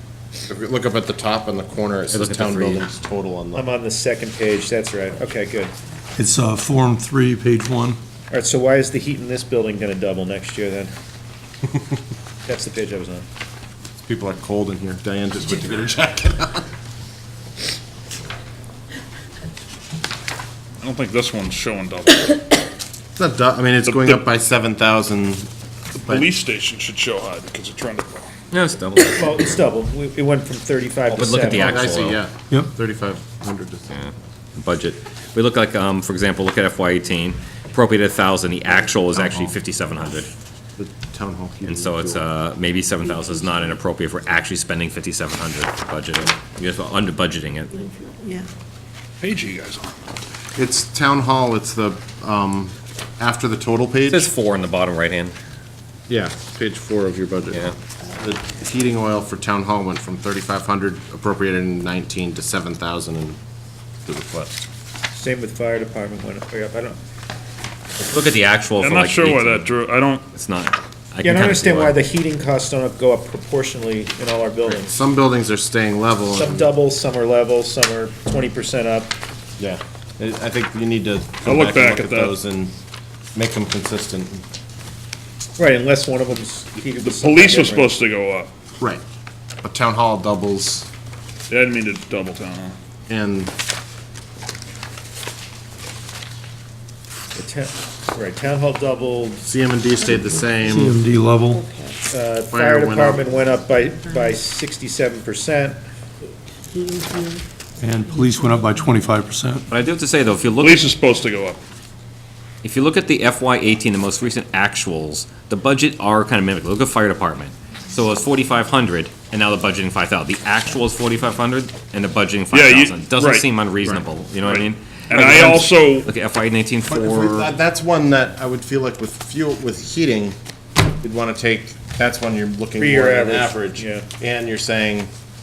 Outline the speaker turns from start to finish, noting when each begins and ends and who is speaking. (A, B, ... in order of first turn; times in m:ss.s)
0:00.4-0:03.7 A
0:02.1-0:02.8 B
0:03.5-0:05.7 C
0:06.2-0:08.0 D
0:08.3-0:10.9 C
0:12.4-0:13.2 C
0:14.0-0:16.6 A
0:20.8-0:22.4 E
0:23.2-0:25.5 A
0:23.9-0:24.2 E
0:26.0-0:28.3 E
0:28.5-0:29.6 B
0:29.1-0:31.8 C
0:31.1-0:32.2 B
0:31.5-0:34.0 A
0:33.9-0:40.3 B
0:39.2-0:39.6 A
0:40.8-0:42.2 A
0:41.6-0:47.9 B
0:48.0-0:48.5 F
0:49.2-0:50.0 E
0:50.6-0:54.3 A
0:54.1-0:55.3 B
0:56.1-1:03.4 A
1:04.0-1:04.6 A
1:05.1-1:07.0 C
1:08.0-1:09.7 B
1:08.8-1:10.2 E
1:10.3-1:12.0 B
1:11.2-1:14.9 C
1:14.6-1:16.8 A
1:16.3-1:19.1 C
1:19.6-1:22.7 A
1:21.4-1:22.3 E
1:23.3-1:24.4 A
1:25.6-1:27.9 C
1:26.9-1:28.5 E
1:29.6-1:30.9 A
1:31.5-1:32.8 E
1:33.1-1:33.5 A
1:37.3-1:39.4 C
1:39.4-1:41.0 A
1:40.6-1:41.6 D
1:41.5-1:42.0 F
1:42.1-1:45.8 C
1:42.5-1:43.2 A
1:46.7-1:47.4 F
1:47.8-1:49.6 D
1:48.2-1:48.5 F
1:49.7-1:50.9 B
1:50.6-1:51.6 E
1:52.6-2:07.5 B
2:02.5-2:06.1 E
2:06.9-2:10.4 A
2:11.0-2:15.1 A
2:12.8-2:14.0 C